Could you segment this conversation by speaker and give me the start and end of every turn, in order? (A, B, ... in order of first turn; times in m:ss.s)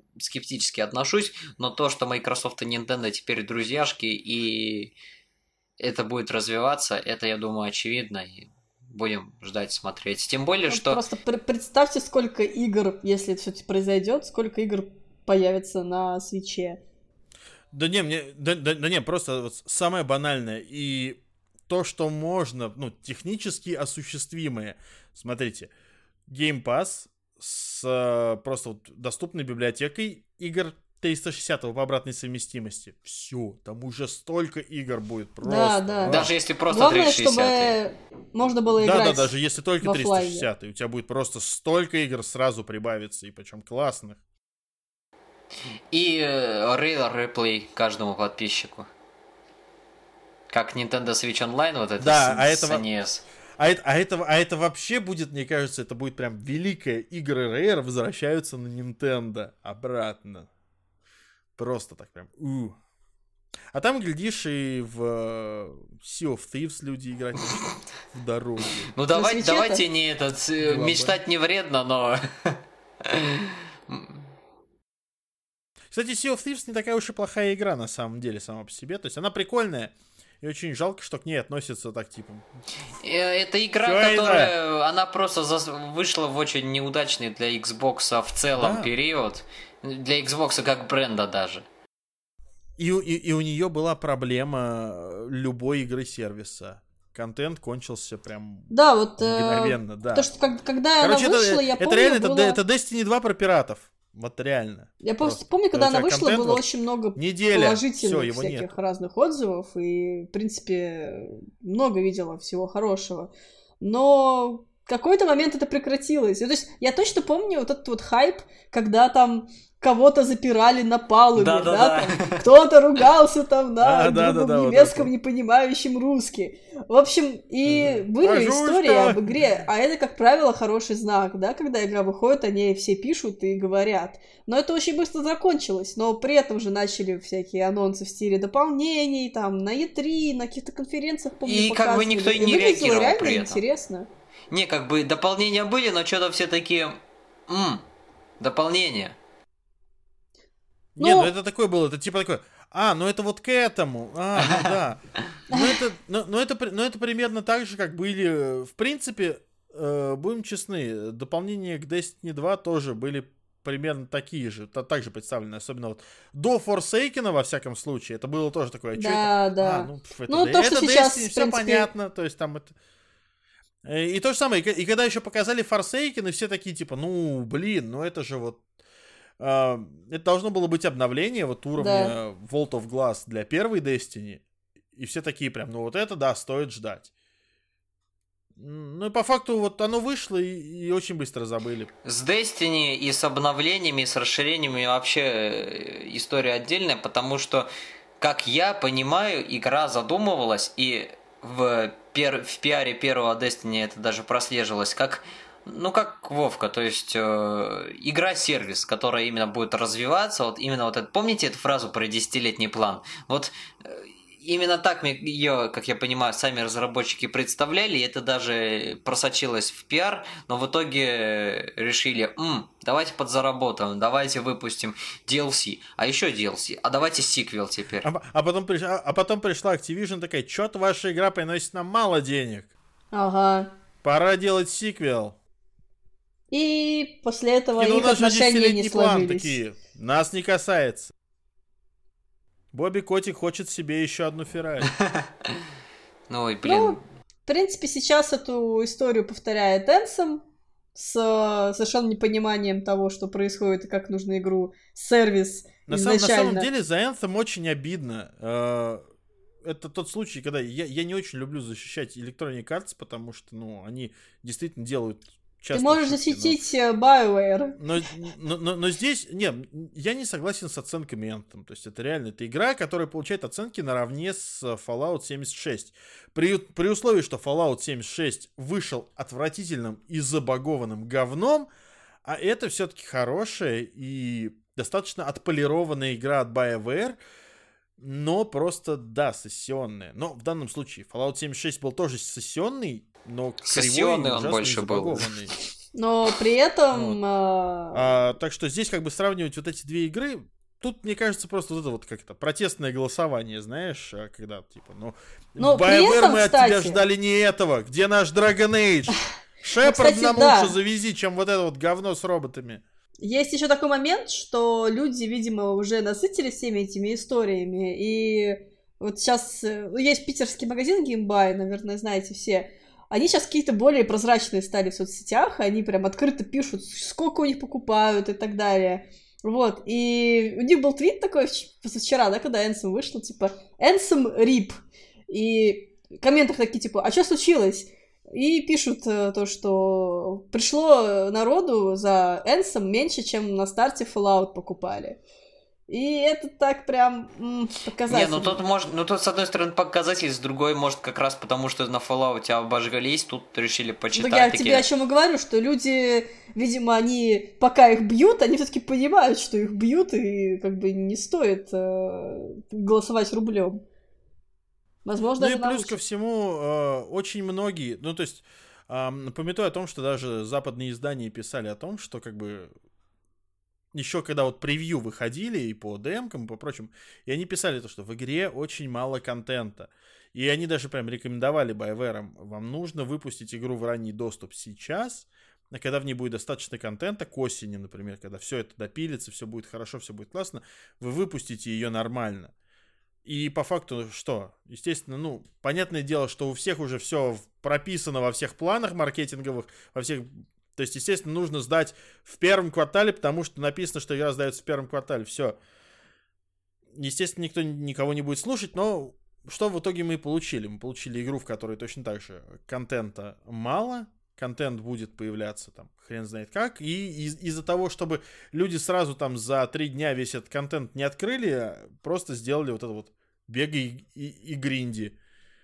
0:00.2-0:04.9 A
0:05.8-0:11.0 A
0:10.7-0:16.8 B
0:17.7-0:25.7 C
0:26.3-0:36.3 C
0:35.4-0:40.5 B
0:36.1-0:37.8 A
0:38.8-0:44.2 C
0:45.9-0:48.9 A
0:50.5-0:53.2 A
0:52.0-0:52.8 C
0:53.6-1:00.5 C
1:01.6-1:02.8 C
1:03.7-1:08.9 C
1:08.9-1:14.3 A
1:09.1-1:09.8 B
1:10.6-1:11.2 C
1:15.9-1:22.5 C
1:23.0-1:31.7 A
1:23.8-1:24.5 C
1:28.6-1:28.9 C
1:32.8-1:40.3 C
1:38.7-1:42.6 B
1:41.0-1:46.6 C
1:45.0-2:24.1 B
1:47.2-1:48.8 C
2:01.4-2:02.4 A
2:03.8-2:05.1 C
2:07.7-2:09.4 C
2:21.4-2:23.6 A
2:24.5-2:27.8 A
2:28.4-2:29.2 A
2:31.0-2:31.3 B
2:31.0-2:52.8 C
2:34.4-2:34.8 A
2:48.9-2:51.9 B
2:53.8-2:58.6 C
2:59.4-3:04.4 C
3:01.8-3:02.2 B
3:04.9-3:07.1 C
3:08.6-3:11.9 C
3:12.0-3:17.7 A
3:18.2-3:48.1 A
3:48.0-3:52.7 C
3:53.1-3:53.7 B
3:54.0-3:55.4 C
3:56.5-3:59.6 B
3:57.8-4:01.1 C
4:02.7-4:04.9 C
4:04.9-4:05.6 A
4:06.3-4:07.0 A
4:06.6-4:10.4 B
4:11.0-4:16.7 B
4:15.9-4:19.0 C
4:19.6-4:26.6 C
4:25.7-4:27.8 B
4:27.8-4:41.7 C
4:42.2-4:47.2 C
4:48.0-4:55.5 C
4:53.6-4:55.3 A
4:56.0-4:58.2 B
4:56.9-4:57.2 C
4:57.9-5:12.8 C
5:05.6-5:07.0 B
5:09.8-5:10.8 B
5:13.2-5:45.2 B
5:45.9-5:48.6 B
5:48.1-5:54.9 A
5:54.1-6:03.8 B
6:05.0-6:06.0 B
6:05.4-6:12.7 C
6:13.9-6:32.5 C
6:33.2-6:45.6 C
6:47.0-7:05.2 C